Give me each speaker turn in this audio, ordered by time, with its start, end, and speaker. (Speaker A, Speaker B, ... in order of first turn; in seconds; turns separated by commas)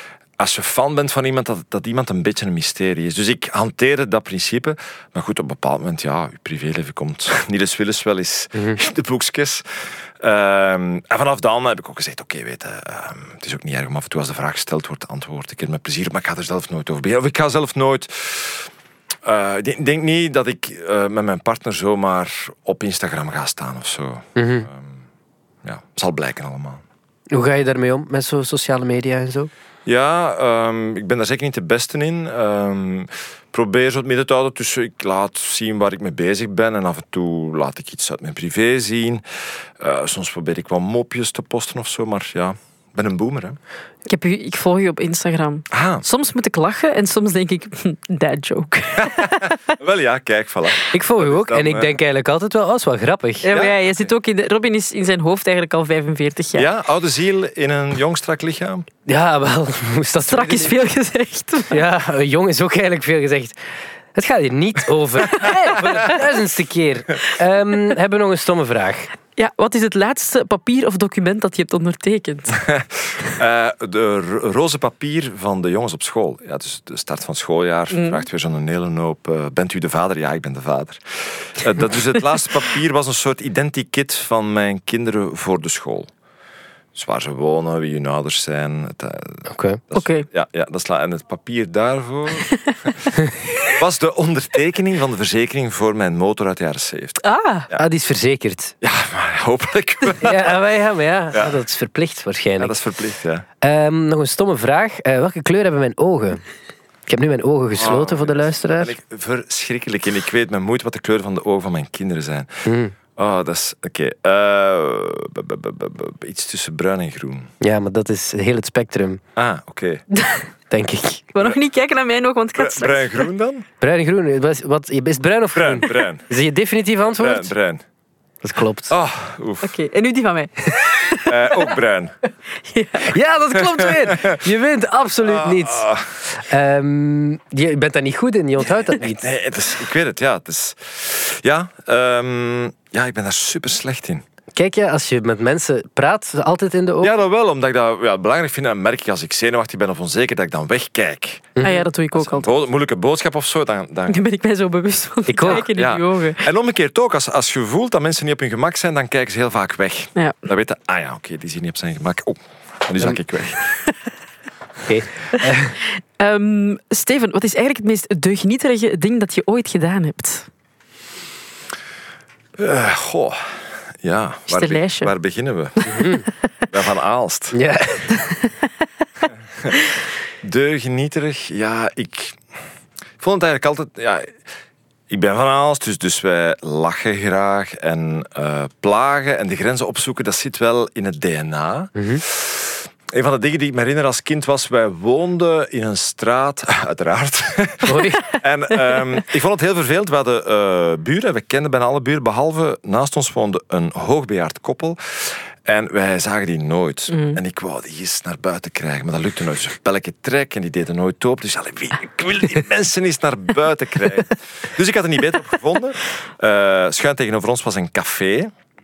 Speaker A: 0.4-18.7, Speaker A: 19.2-25.0, Speaker B: 24.4-24.7, Speaker A: 25.6-26.8, Speaker B: 27.3-29.5, Speaker A: 29.9-39.2, Speaker A: 39.8-43.6, Speaker C: 44.1-49.6, Speaker A: 45.7-46.0, Speaker A: 49.0-51.9, Speaker B: 50.9-53.5, Speaker C: 53.4-56.7, Speaker A: 53.5-54.1, Speaker A: 56.5-58.9, Speaker B: 59.1-60.8, Speaker C: 60.3-61.8, Speaker B: 61.7-63.6, Speaker B: 64.1-69.1, Speaker C: 65.4-65.8, Speaker C: 69.4-72.6, Speaker A: 72.6-86.1, Speaker C: 77.9-78.2, Speaker A: 87.0-93.1, Speaker B: 89.5-89.8, Speaker C: 89.9-90.3, Speaker C: 92.5-92.7, Speaker A: 93.6-97.8, Speaker C: 97.2-97.7, Speaker B: 97.8-98.8, Speaker A: 98.8-100.6, Speaker B: 100.2-102.8, Speaker A: 102.6-103.5, Speaker B: 103.6-106.4, Speaker B: 107.1-109.0, Speaker A: 107.8-117.5, Speaker B: 112.7-113.0, Speaker B: 117.6-119.2, Speaker A: 119.4-120.0, Speaker C: 120.1-120.5, Speaker B: 120.7-121.3, Speaker C: 121.3-123.3, Speaker A: 122.6-123.7, Speaker B: 123.8-127.5, Speaker A: 125.5-126.2, Speaker A: 127.2-127.8, Speaker B: 128.4-128.9, Speaker A: 128.9-129.7, Speaker C: 129.6-131.6, Speaker A: 131.3-132.1, Speaker C: 132.7-133.1, Speaker B: 133.0-139.2, Speaker A: 133.8-134.4, Speaker A: 135.2-136.1, Speaker A: 138.9-144.2, Speaker B: 144.6-147.1, Speaker A: 147.0-154.2, Speaker B: 151.6-151.8, Speaker C: 151.6-152.5, Speaker C: 154.1-156.5, Speaker B: 155.3-155.7, Speaker A: 155.4-163.7, Speaker B: 164.9-165.8, Speaker C: 166.2-170.5, Speaker A: 172.6-176.2, Speaker C: 174.5-175.1, Speaker B: 175.9-176.2, Speaker A: 176.7-177.6, Speaker B: 177.5-178.2, Speaker A: 180.4-182.4, Speaker A: 183.2-184.4, Speaker A: 185.1-218.5, Speaker B: 191.9-192.2, Speaker B: 197.8-198.2, Speaker C: 207.1-207.4